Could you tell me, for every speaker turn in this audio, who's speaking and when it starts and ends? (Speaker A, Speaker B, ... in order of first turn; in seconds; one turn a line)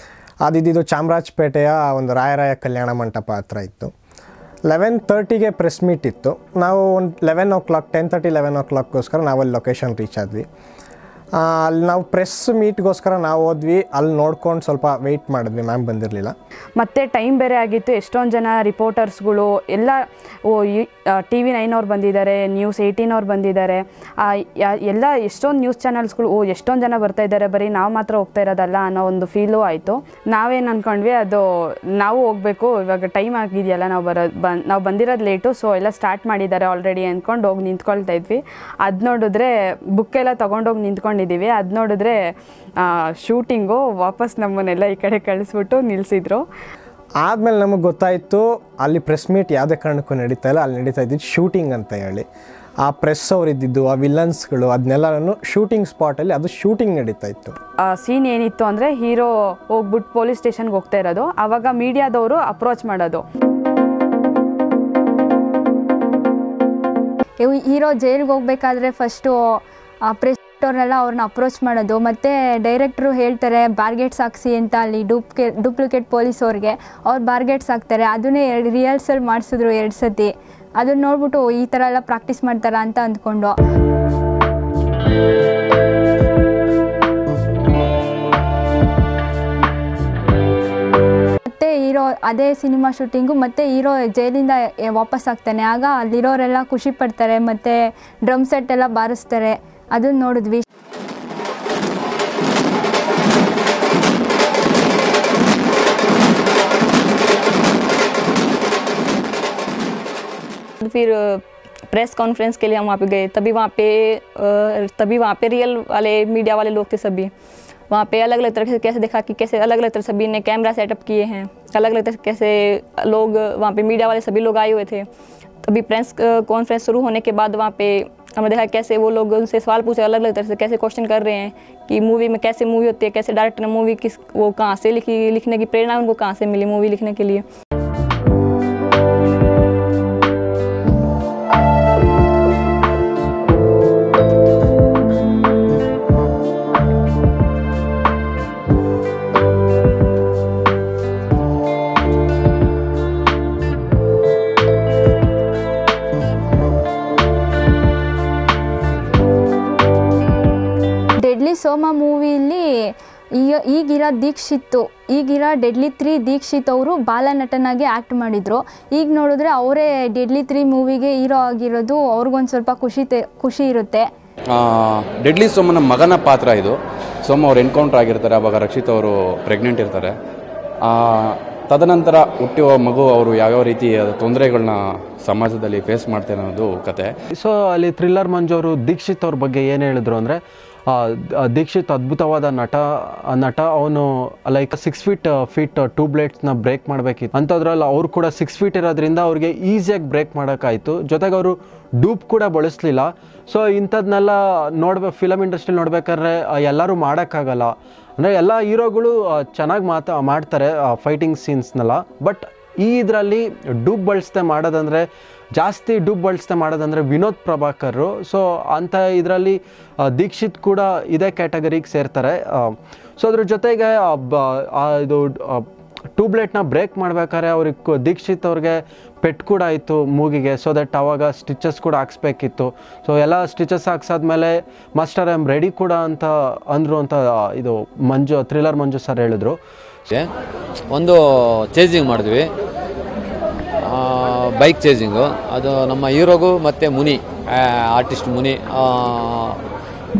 Speaker A: 0.4-3.9
Speaker A: 4.7-10.5
Speaker A: 11.4-16.4
Speaker B: 16.8-31.4
Speaker B: 32.0-42.2
Speaker B: 42.8-46.4
Speaker A: 47.2-52.3
Speaker A: 52.8-57.6
Speaker B: 57.8-63.2
Speaker C: 67.4-83.5
Speaker C: 91.5-100.6
Speaker D: 110.8-117.3
Speaker D: 117.9-125.1
Speaker D: 125.7-137.4
Speaker C: 161.2-174.1
Speaker E: 175.2-176.7
Speaker E: 177.3-180.1
Speaker E: 181.7-187.1
Speaker F: 187.4-225.7
Speaker F: 226.2-239.6
Speaker G: 240.9-241.2
Speaker G: 241.7-242.4
Speaker G: 243.9-249.6